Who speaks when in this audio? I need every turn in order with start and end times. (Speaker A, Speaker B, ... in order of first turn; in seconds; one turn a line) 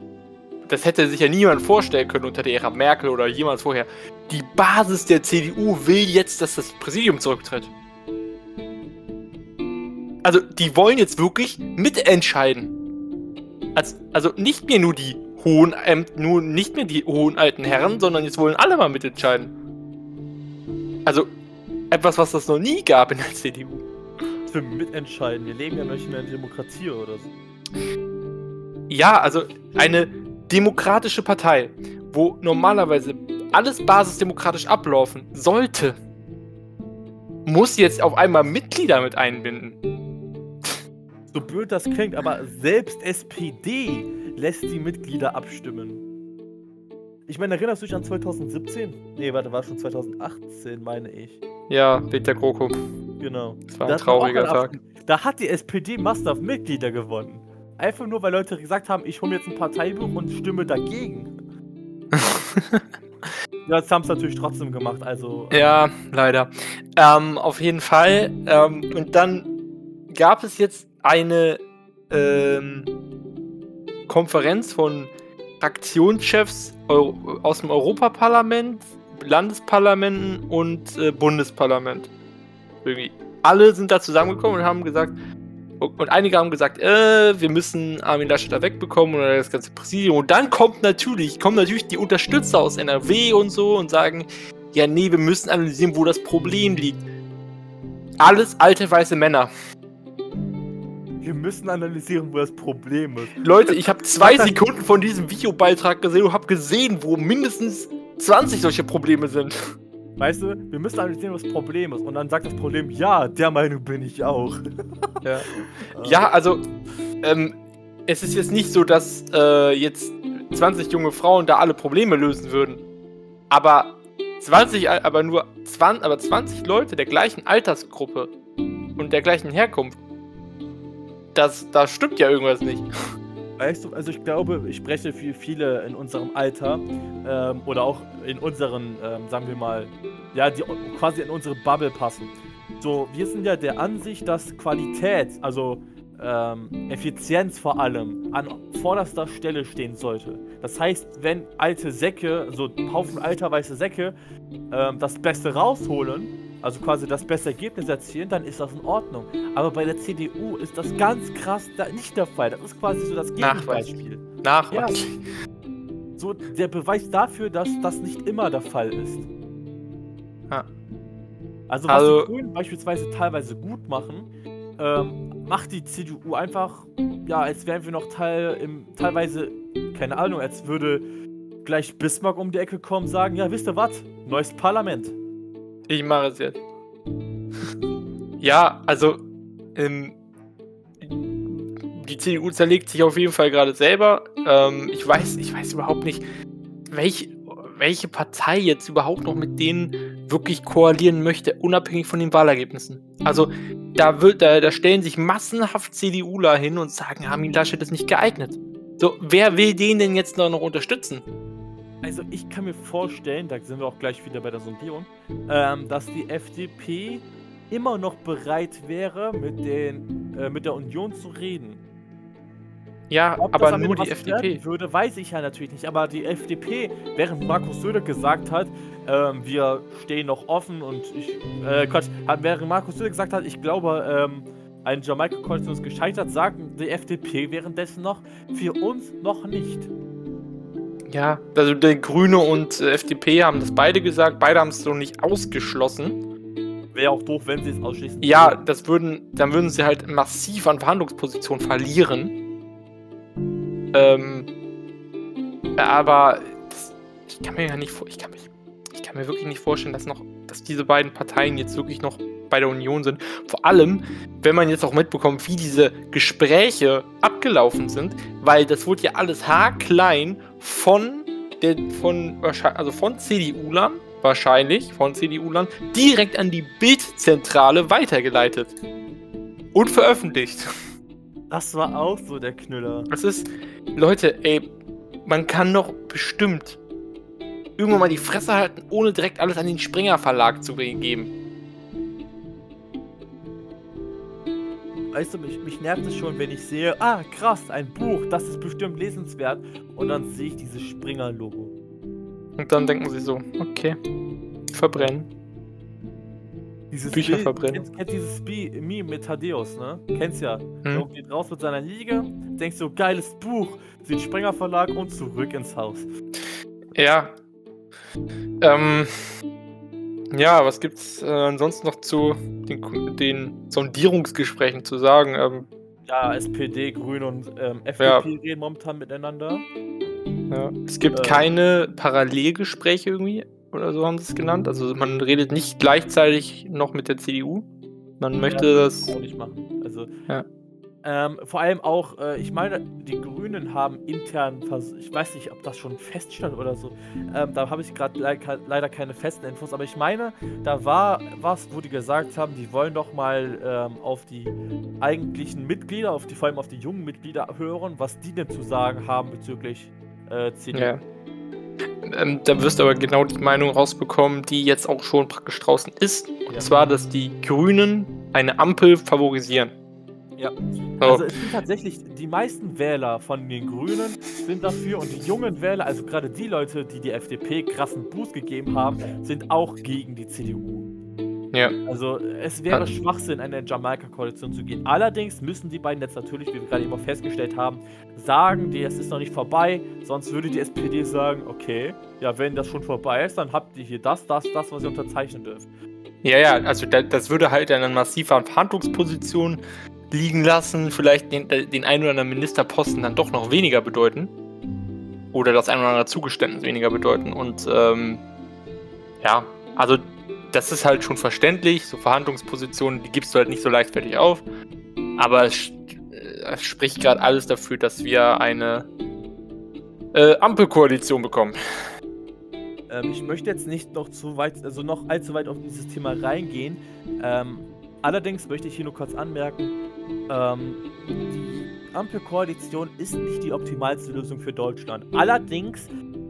Speaker A: 0.7-7.7
Speaker A: 10.2-12.7
Speaker A: 13.8-19.5
Speaker A: 21.9-23.8
Speaker B: 24.5-27.3
Speaker A: 28.9-36.0
Speaker A: 37.5-39.8
Speaker B: 41.3-46.0
Speaker B: 47.3-51.4
Speaker A: 51.7-52.8
Speaker B: 53.2-61.3
Speaker A: 53.7-54.8
Speaker A: 62.1-63.3
Speaker B: 63.7-65.6
Speaker A: 65.5-69.5
Speaker A: 70.1-72.9
Speaker A: 74.1-82.1
Speaker A: 82.8-85.2
Speaker A: 85.8-97.0
Speaker A: 98.2-99.5
Speaker B: 101.2-104.6
Speaker A: 103.4-109.5
Speaker B: 110.2-116.3
Speaker A: 115.2-115.5
Speaker A: 116.0-116.6
Speaker A: 117.2-117.6
Speaker A: 118.1-122.8
Speaker A: 123.5-128.3
Speaker A: 129.0-130.0
Speaker A: 131.3-132.9
Speaker B: 133.6-154.2
Speaker B: 154.7-165.0
Speaker A: 163.4-165.2
Speaker B: 166.2-169.3
Speaker B: 171.7-181.1
Speaker A: 171.9-172.3
Speaker B: 181.6-185.2
Speaker A: 185.9-186.6
Speaker A: 188.4-189.2
Speaker A: 189.8-190.2
Speaker A: 191.0-196.2
Speaker A: 196.9-211.2
Speaker B: 212.0-221.8
Speaker A: 223.1-224.6
Speaker B: 223.4-239.9
Speaker A: 241.1-246.2
Speaker B: 246.9-248.6
Speaker A: 248.2-252.3
Speaker A: 253.9-254.5
Speaker A: 255.8-278.8
Speaker A: 279.7-280.6
Speaker B: 281.5-283.1
Speaker A: 283.1-284.7
Speaker A: 285.3-286.8
Speaker A: 287.8-291.3
Speaker B: 295.1-301.7
Speaker A: 302.6-304.0
Speaker A: 304.7-305.3
Speaker B: 306.9-316.1
Speaker A: 307.1-307.9
Speaker A: 316.9-317.4
Speaker A: 318.6-319.1
Speaker A: 320.3-325.7
Speaker B: 326.1-329.7
Speaker A: 328.0-328.3
Speaker A: 330.5-337.7
Speaker B: 331.1-331.5
Speaker A: 338.2-339.1
Speaker B: 338.5-340.1
Speaker B: 341.0-360.9
Speaker A: 360.7-361.0
Speaker A: 362.0-369.7
Speaker B: 370.4-380.9
Speaker A: 371.0-371.3
Speaker B: 381.9-395.7
Speaker A: 396.2-404.3
Speaker A: 405.3-408.2
Speaker A: 409.2-414.4
Speaker A: 415.2-418.9
Speaker A: 420.1-421.6
Speaker B: 422.9-429.8
Speaker B: 430.3-435.9